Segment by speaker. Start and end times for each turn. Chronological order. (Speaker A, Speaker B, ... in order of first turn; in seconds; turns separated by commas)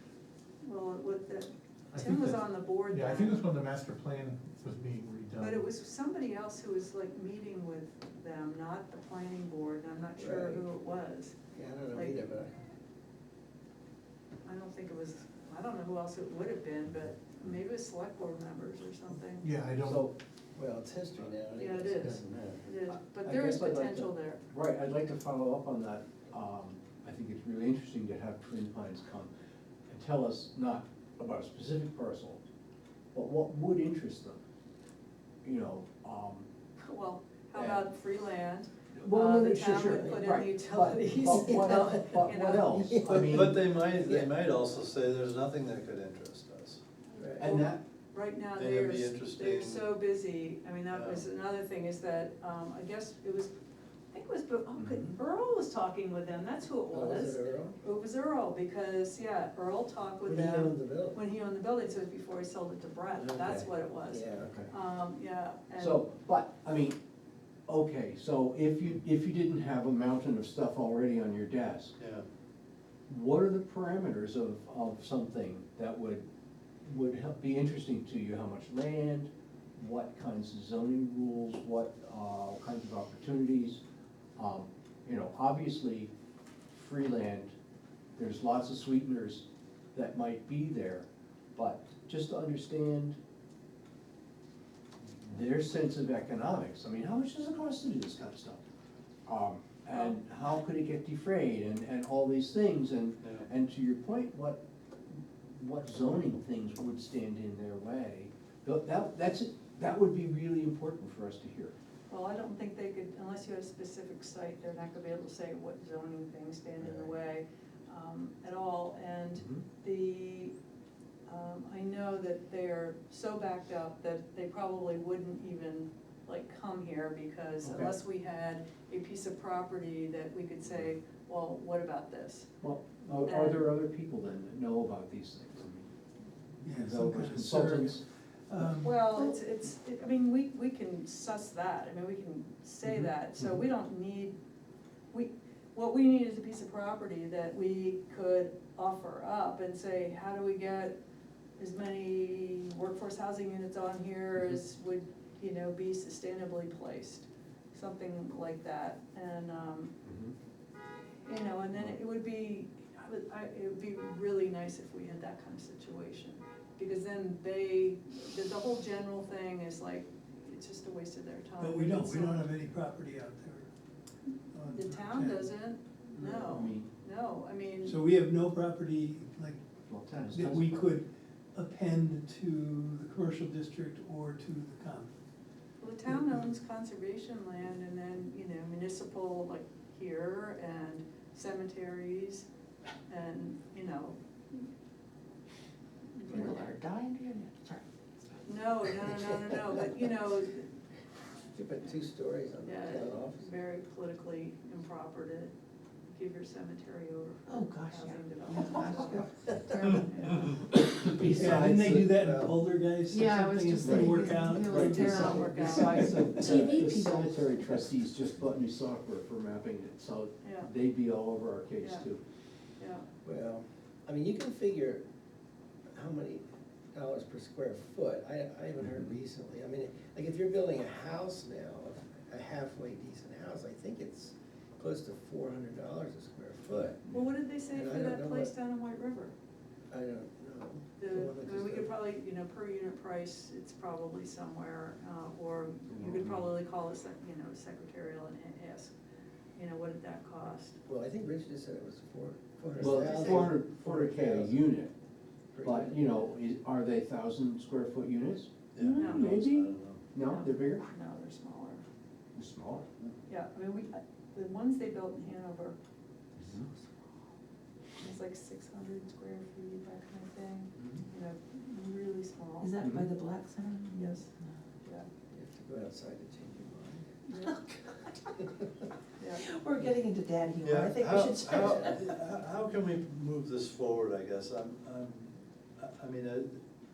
Speaker A: 0.6-3.5, Speaker B: 1.9-5.7, Speaker A: 5.4-11.3, Speaker C: 10.2-10.7, Speaker C: 11.5-12.6, Speaker A: 11.9-12.2, Speaker A: 14.4-19.5, Speaker B: 19.4-20.0, Speaker D: 19.8-20.1, Speaker C: 20.6-22.6, Speaker A: 21.6-24.4, Speaker D: 22.9-29.3, Speaker D: 29.9-32.4, Speaker D: 33.1-34.4, Speaker D: 35.4-36.5, Speaker A: 36.8-43.1, Speaker D: 37.5-37.9, Speaker D: 39.0-43.7, Speaker C: 42.6-43.5, Speaker E: 43.1-46.8, Speaker C: 47.2-47.5, Speaker A: 47.2-53.5, Speaker D: 47.4-47.8, Speaker E: 48.6-49.9, Speaker E: 50.9-51.2, Speaker A: 54.1-66.0, Speaker D: 54.8-55.1, Speaker C: 56.9-57.8, Speaker C: 60.2-61.2, Speaker C: 63.2-64.7, Speaker D: 65.8-67.0, Speaker D: 67.7-71.9, Speaker E: 72.0-72.2, Speaker D: 73.1-76.2, Speaker D: 76.8-83.8, Speaker D: 84.4-86.1, Speaker D: 86.7-87.5, Speaker D: 88.2-93.2, Speaker D: 95.1-98.6, Speaker D: 99.3-111.7, Speaker E: 103.2-103.5, Speaker A: 112.1-120.5, Speaker D: 119.3-119.6, Speaker A: 121.3-132.5, Speaker D: 127.6-127.9, Speaker D: 132.6-135.9, Speaker A: 133.1-133.7, Speaker F: 136.6-138.0, Speaker D: 136.7-138.0, Speaker F: 138.5-139.1, Speaker A: 138.8-144.4, Speaker D: 142.8-143.6, Speaker A: 145.1-151.0, Speaker A: 151.6-159.9, Speaker D: 160.0-160.3, Speaker A: 161.3-172.5, Speaker F: 171.6-173.7, Speaker F: 174.5-175.4, Speaker A: 174.7-178.0, Speaker D: 176.2-176.9, Speaker F: 177.8-179.6, Speaker D: 179.8-180.9, Speaker F: 180.3-185.1, Speaker A: 185.8-192.5, Speaker A: 193.1-194.7, Speaker A: 196.2-196.6, Speaker G: 196.2-197.8, Speaker A: 198.4-200.7, Speaker C: 201.5-203.5, Speaker A: 202.7-205.5, Speaker A: 206.1-210.6, Speaker G: 207.5-210.5, Speaker D: 210.7-212.2, Speaker C: 211.2-212.6, Speaker F: 211.3-216.7, Speaker G: 213.1-217.3, Speaker D: 213.8-222.2, Speaker A: 214.6-216.7, Speaker A: 220.4-220.7, Speaker A: 221.8-222.1, Speaker A: 222.8-223.1, Speaker C: 223.2-225.0, Speaker C: 225.9-237.0, Speaker A: 237.1-239.3, Speaker C: 237.7-238.5, Speaker C: 239.9-241.9, Speaker A: 241.0-248.9, Speaker D: 245.9-246.5, Speaker A: 249.6-250.8, Speaker C: 250.9-254.6, Speaker A: 252.8-253.6, Speaker D: 252.8-254.9, Speaker C: 255.5-256.0, Speaker D: 255.6-260.9, Speaker E: 258.7-260.0, Speaker A: 258.8-259.4, Speaker A: 260.2-261.8, Speaker D: 262.3-262.9, Speaker A: 263.3-265.8, Speaker D: 266.4-266.7, Speaker A: 268.0-272.9, Speaker G: 272.6-274.6, Speaker D: 272.8-273.1, Speaker A: 273.9-274.3, Speaker C: 275.3-277.1, Speaker A: 277.3-277.6, Speaker A: 279.2-279.5, Speaker G: 279.4-281.9, Speaker E: 280.6-286.6